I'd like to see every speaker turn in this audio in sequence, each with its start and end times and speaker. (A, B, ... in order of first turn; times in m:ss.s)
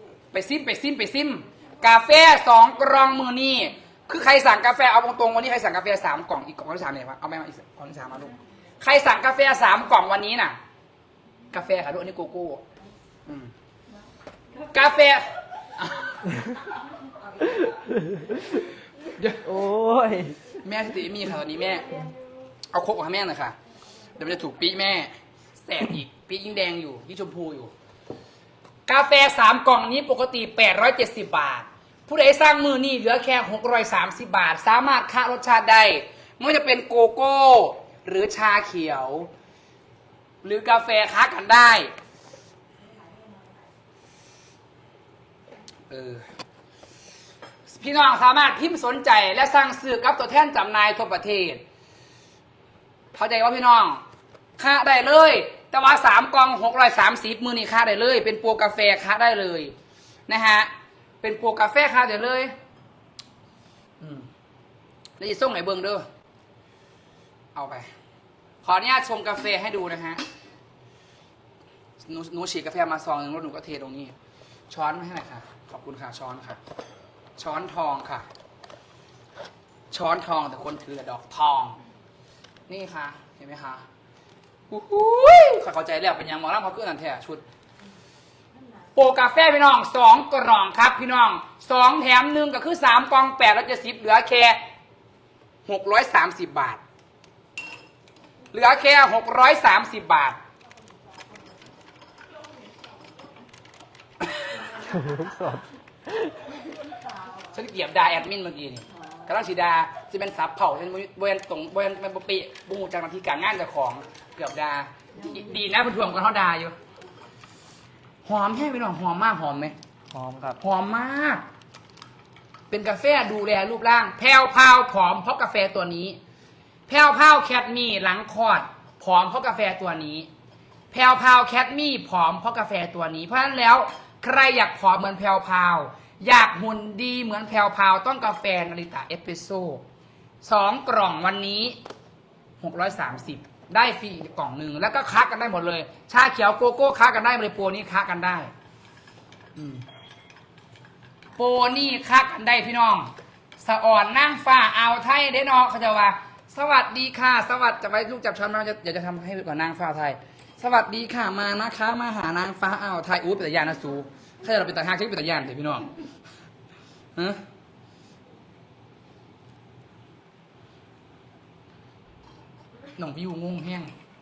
0:00.3-0:10.6 A
0:11.5-0:12.6 A
0:13.2-0:13.5 A
0:14.6-0:16.2 A
0:17.4-0:18.6 B
0:19.4-0:20.4 B
0:20.6-0:22.1 A
0:22.7-0:23.6 A
0:24.1-0:27.7 A
0:28.9-0:39.3 A
0:40.4-0:41.9 A
0:45.9-0:46.2 A
0:47.7-0:51.6 A
0:53.1-0:54.0 A
0:54.6-0:59.7 A
1:00.3-1:00.7 A
1:01.2-1:02.5 A
1:04.0-1:04.3 A
1:05.2-1:06.0 A
1:07.5-1:07.9 A
1:08.6-1:10.2 A
1:12.0-1:14.1 A
1:14.7-1:16.6 A
1:17.4-1:18.3 A
1:19.9-1:21.8 A
1:22.7-1:23.8 A
1:24.7-1:27.4 A
1:28.9-1:34.6 A
1:35.7-1:36.8 A
1:38.5-1:40.4 A
1:44.7-1:46.5 B
1:47.5-1:56.7 A
1:58.2-1:59.8 A
2:00.1-2:00.6 B
2:00.6-2:01.4 A
2:02.7-2:06.2 A
2:06.9-2:10.3 A
2:10.9-2:19.8 A
2:20.4-2:21.8 A
2:22.6-2:28.5 A
2:29.6-2:29.8 A
2:31.4-2:45.9 A
2:47.2-2:47.4 A
2:53.0-2:53.9 A